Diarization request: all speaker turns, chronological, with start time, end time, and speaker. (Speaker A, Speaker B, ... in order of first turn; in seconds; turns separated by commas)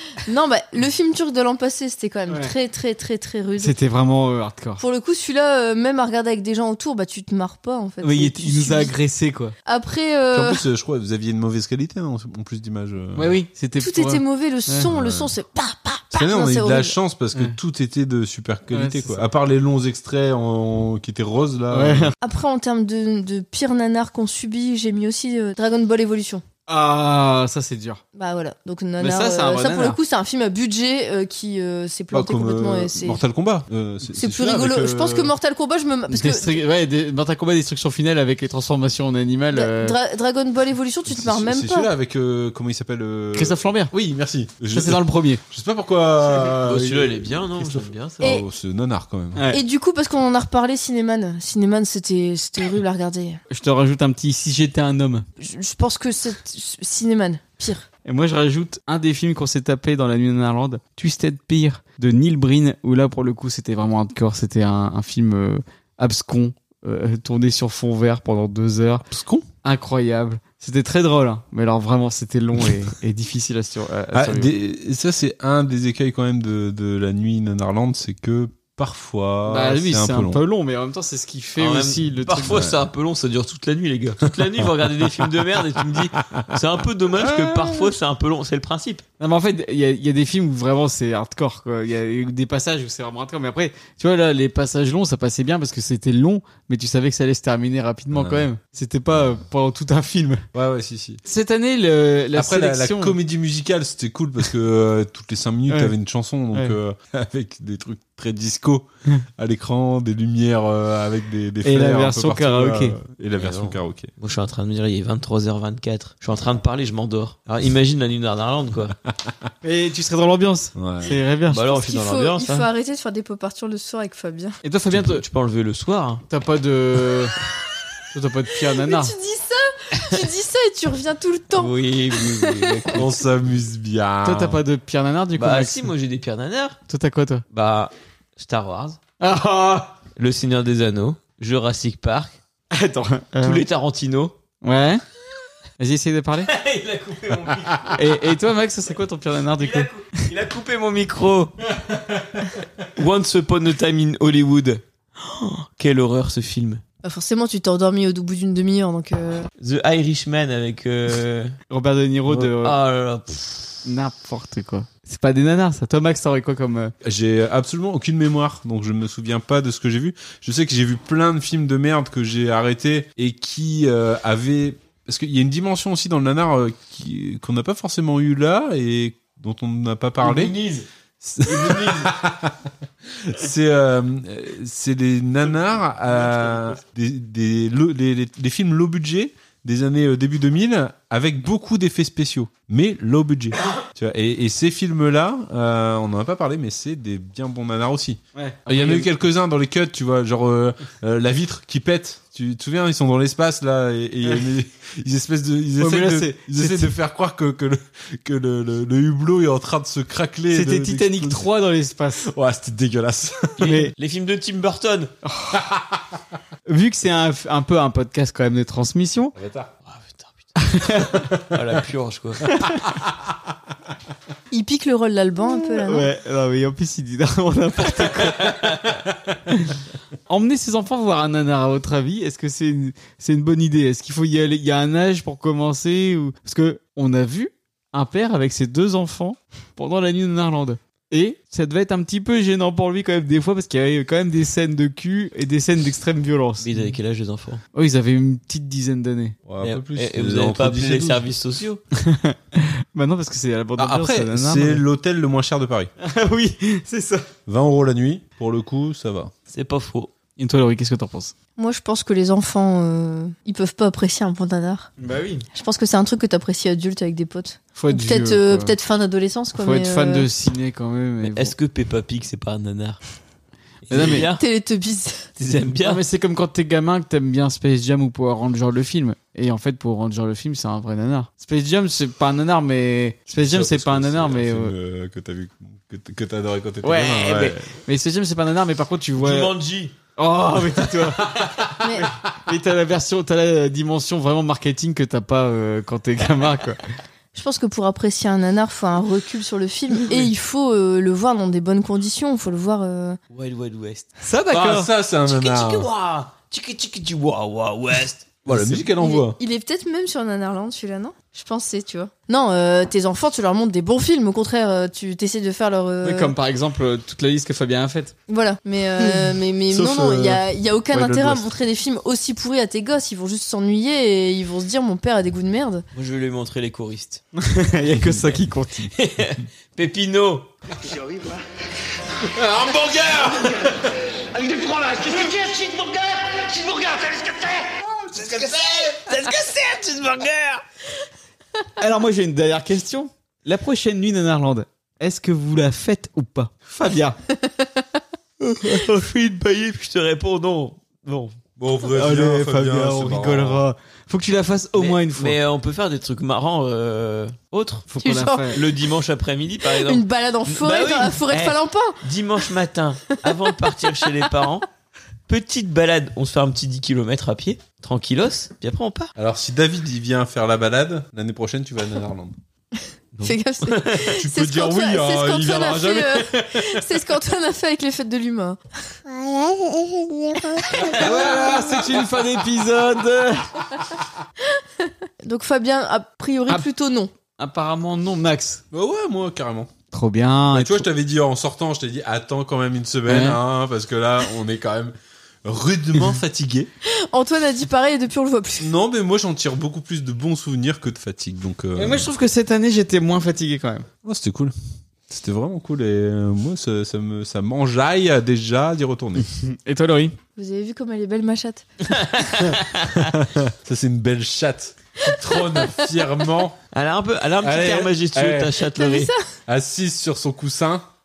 Speaker A: 0.2-3.8, Speaker B: 2.3-2.5, Speaker B: 3.6-4.8, Speaker A: 4.8-8.9, Speaker B: 8.0-9.5, Speaker A: 9.7-10.6, Speaker C: 10.3-13.4, Speaker B: 13.2-14.9, Speaker A: 13.8-16.9, Speaker C: 14.9-15.3, Speaker C: 16.1-22.1, Speaker B: 18.7-19.2, Speaker B: 21.7-22.1, Speaker A: 22.2-26.4, Speaker B: 26.7-28.0, Speaker A: 28.1-33.2, Speaker B: 29.0-30.0, Speaker C: 32.1-35.3, Speaker A: 34.1-36.6, Speaker B: 36.1-40.0, Speaker A: 39.5-41.9, Speaker C: 41.1-49.4, Speaker B: 43.3-43.9, Speaker B: 44.7-45.4, Speaker D: 46.4-48.3, Speaker B: 49.4-49.6, Speaker A: 49.5-53.4, Speaker B: 53.5-55.3, Speaker A: 55.4-57.9, Speaker B: 58.0-69.0, Speaker C: 69.1-69.5, Speaker B: 69.6-74.5, Speaker C: 74.1-80.4, Speaker B: 79.5-82.6, Speaker D: 81.6-89.0, Speaker C: 82.5-82.9, Speaker C: 87.2-87.8, Speaker B: 89.2-100.5, Speaker C: 98.1-98.5, Speaker C: 100.5-101.2, Speaker B: 101.2-103.2, Speaker C: 102.3-114.1, Speaker B: 105.7-105.9, Speaker B: 111.6-113.0, Speaker D: 113.4-119.0, Speaker B: 119.6-121.7, Speaker C: 120.8-121.2, Speaker D: 121.5-122.7, Speaker A: 121.7-124.6, Speaker B: 124.6-125.2, Speaker D: 124.9-126.2, Speaker B: 126.3-127.3, Speaker B: 128.1-129.1, Speaker A: 128.7-133.0, Speaker D: 131.5-133.1, Speaker C: 132.9-134.6, Speaker B: 134.2-135.9, Speaker D: 135.4-136.8, Speaker B: 136.9-137.4, Speaker D: 137.5-139.0, Speaker B: 139.2-139.9, Speaker D: 140.2-142.4, Speaker B: 142.7-143.7, Speaker D: 143.4-144.3, Speaker B: 144.6-145.0, Speaker B: 145.8-146.5, Speaker D: 146.5-148.0, Speaker B: 147.9-149.9, Speaker D: 149.6-151.5, Speaker D: 153.0-156.8, Speaker A: 157.0-159.5, Speaker D: 159.6-161.6, Speaker B: 161.7-162.8, Speaker D: 162.6-163.8, Speaker B: 163.8-166.9, Speaker C: 167.0-180.5, Speaker B: 180.2-180.8, Speaker C: 181.2-182.6, Speaker B: 181.4-182.1, Speaker C: 183.2-211.5, Speaker B: 198.3-199.1, Speaker B: 205.8-206.9, Speaker B: 210.5-212.3, Speaker C: 212.2-213.7, Speaker D: 213.6-215.1, Speaker B: 213.6-213.9, Speaker B: 215.2-215.6, Speaker C: 215.5-216.0, Speaker B: 216.7-219.3, Speaker C: 219.3-219.7, Speaker D: 219.9-222.4, Speaker B: 220.6-221.2, Speaker C: 222.7-223.3, Speaker A: 224.5-226.1, Speaker B: 225.6-228.6, Speaker D: 228.3-228.9, Speaker B: 229.5-229.8, Speaker B: 230.3-246.7, Speaker D: 246.6-247.6, Speaker B: 247.8-249.3, Speaker C: 249.5-251.3, Speaker D: 249.6-251.8, Speaker B: 252.0-254.8, Speaker C: 253.8-255.9, Speaker B: 256.0-257.3, Speaker C: 257.5-259.3, Speaker D: 259.5-260.1, Speaker B: 260.4-261.3, Speaker A: 261.6-264.9, Speaker B: 265.0-265.5, Speaker A: 265.6-270.3, Speaker B: 267.8-268.8, Speaker B: 269.6-271.6, Speaker D: 271.2-273.0, Speaker D: 273.9-274.4, Speaker B: 273.9-274.3, Speaker A: 274.3-275.3, Speaker D: 275.4-276.0, Speaker B: 275.8-284.7, Speaker C: 283.4-287.7, Speaker B: 286.8-289.5, Speaker D: 289.2-289.9, Speaker B: 290.2-296.8, Speaker A: 291.8-292.1, Speaker A: 297.3-303.2, Speaker D: 303.3-304.1, Speaker B: 304.2-304.9, Speaker C: 304.5-305.9, Speaker D: 305.3-308.3, Speaker C: 308.5-309.4, Speaker B: 308.5-308.8, Speaker A: 308.9-316.4, Speaker B: 316.0-318.1, Speaker A: 318.3-325.8, Speaker C: 319.7-321.5, Speaker D: 325.9-327.2, Speaker B: 327.4-328.9, Speaker D: 327.9-328.3, Speaker D: 328.9-330.5, Speaker E: 330.8-331.4, Speaker C: 332.3-333.8, Speaker E: 333.5-338.5, Speaker C: 338.1-339.0, Speaker D: 338.7-340.6, Speaker B: 341.8-347.2, Speaker D: 348.4-351.3, Speaker C: 351.6-353.6, Speaker B: 351.8-355.4, Speaker D: 354.8-357.9, Speaker B: 357.9-358.6, Speaker A: 358.0-358.6, Speaker D: 358.5-364.7, Speaker A: 359.7-362.0, Speaker D: 365.3-369.1, Speaker C: 369.2-372.3, Speaker D: 373.2-374.1, Speaker A: 373.2-378.6, Speaker C: 374.0-376.9, Speaker F: 379.1-381.4, Speaker B: 381.0-383.5, Speaker C: 381.0-381.9, Speaker A: 384.8-387.1, Speaker B: 387.4-388.6, Speaker C: 388.7-389.7, Speaker B: 389.9-390.9, Speaker C: 390.5-396.7, Speaker B: 393.1-393.4, Speaker A: 396.9-398.7, Speaker C: 398.6-402.1, Speaker B: 401.8-403.9, Speaker C: 404.0-404.6, Speaker C: 405.1-409.3, Speaker B: 409.3-410.2, Speaker A: 410.4-411.6, Speaker D: 411.9-413.1, Speaker C: 413.0-416.6, Speaker A: 415.3-415.7, Speaker D: 416.7-419.1, Speaker C: 417.4-418.6, Speaker A: 418.8-419.2, Speaker C: 419.5-420.9